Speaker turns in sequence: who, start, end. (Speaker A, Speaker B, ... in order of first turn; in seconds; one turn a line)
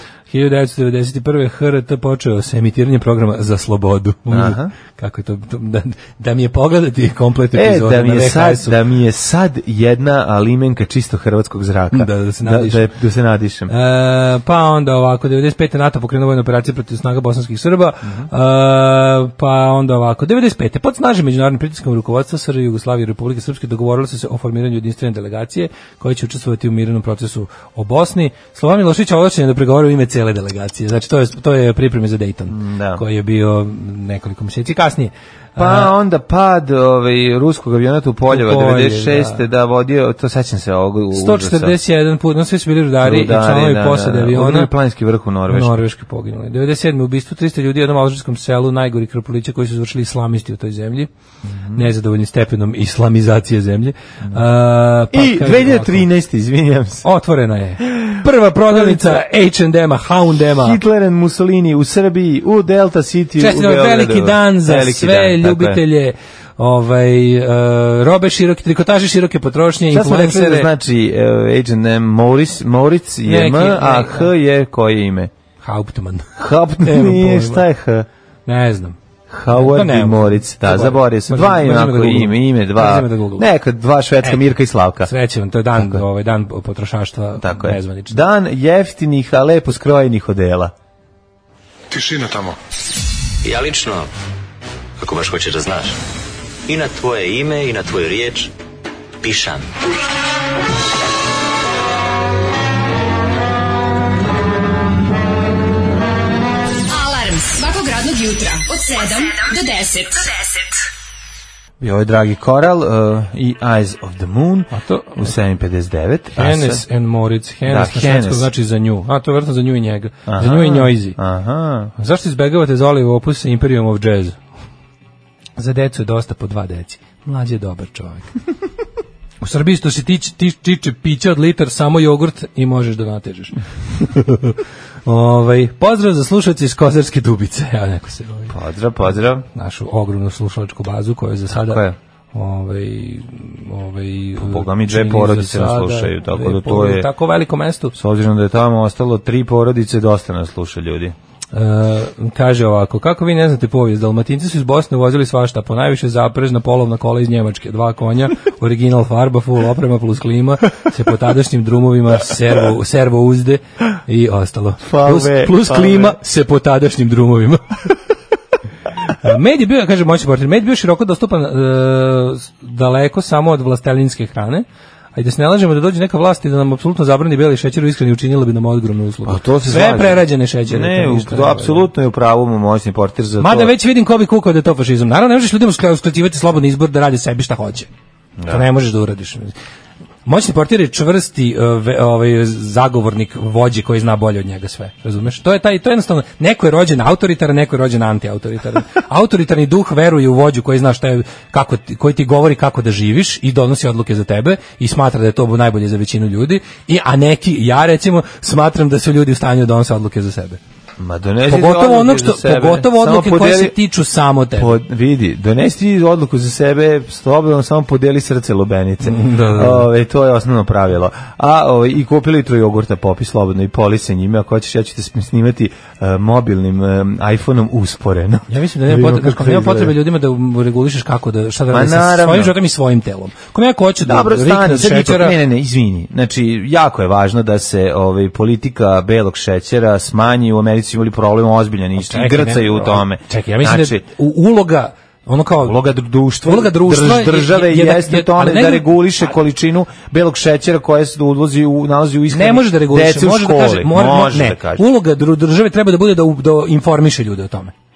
Speaker A: 0.3-8.8
Speaker B: 4.3-4.7
Speaker B: 7.5-13.7
Speaker A: 11.9-12.9
Speaker A: 13.7-35.9
Speaker B: 32.5-33.0
Speaker B: 35.6-41.8
Speaker A: 38.3-39.4
Speaker A: 41.1-44.7
Speaker B: 43.0-45.8
Speaker A: 45.5-51.1
Speaker B: 51.4-51.8
Speaker A: 51.7-56.1
Speaker B: 55.1-57.0
Speaker A: 57.0-60.8
Speaker B: 57.8-59.2
Speaker B: 60.4-65.8
Speaker A: 63.4-70.7
Speaker B: 69.9-75.3
Speaker A: 73.2-74.3
Speaker A: 75.6-76.3
Speaker B: 76.4-78.0
Speaker A: 76.8-77.6
Speaker A: 78.5-79.0
Speaker B: 79.3-85.1
Speaker A: 79.5-83.5
Speaker A: 85.0-88.2
Speaker B: 85.8-86.0
Speaker B: 87.4-90.7
Speaker C: 91.9-92.6
Speaker C: 93.4-94.1
Speaker C: 95.0-96.0
Speaker C: 96.7-98.5
Speaker C: 99.2-99.7
Speaker D: 106.9-110.8
Speaker B: 111.8-116.8
Speaker A: 114.7-115.3
Speaker A: 116.3-121.2
Speaker B: 117.7-118.5
Speaker B: 120.3-121.9
Speaker A: 122.0-124.4
Speaker A: 125.6-128.3
Speaker A: 129.4-138.5
Speaker B: 138.5-139.4
Speaker A: 139.5-147.9
Speaker B: 141.5-142.0
Speaker B: 144.4-147.1
Speaker B: 147.9-151.1
Speaker A: 151.5-167.9
Speaker B: 164.8-166.2
Speaker A: 169.2-181.9
Speaker B: 179.2-183.7
Speaker A: 183.4-187.9
Speaker B: 188.4-188.6
Speaker A: 188.5-189.5
Speaker A: 190.2-210.6
Speaker B: 211.0-213.8
Speaker A: 211.5-214.8
Speaker B: 214.5-229.9
Speaker A: 219.0-219.9
Speaker A: 228.5-235.4
Speaker B: 231.7-232.5
Speaker B: 234.0-244.0
Speaker A: 242.0-245.8
Speaker B: 245.6-254.8
Speaker A: 246.4-248.9
Speaker A: 252.3-257.7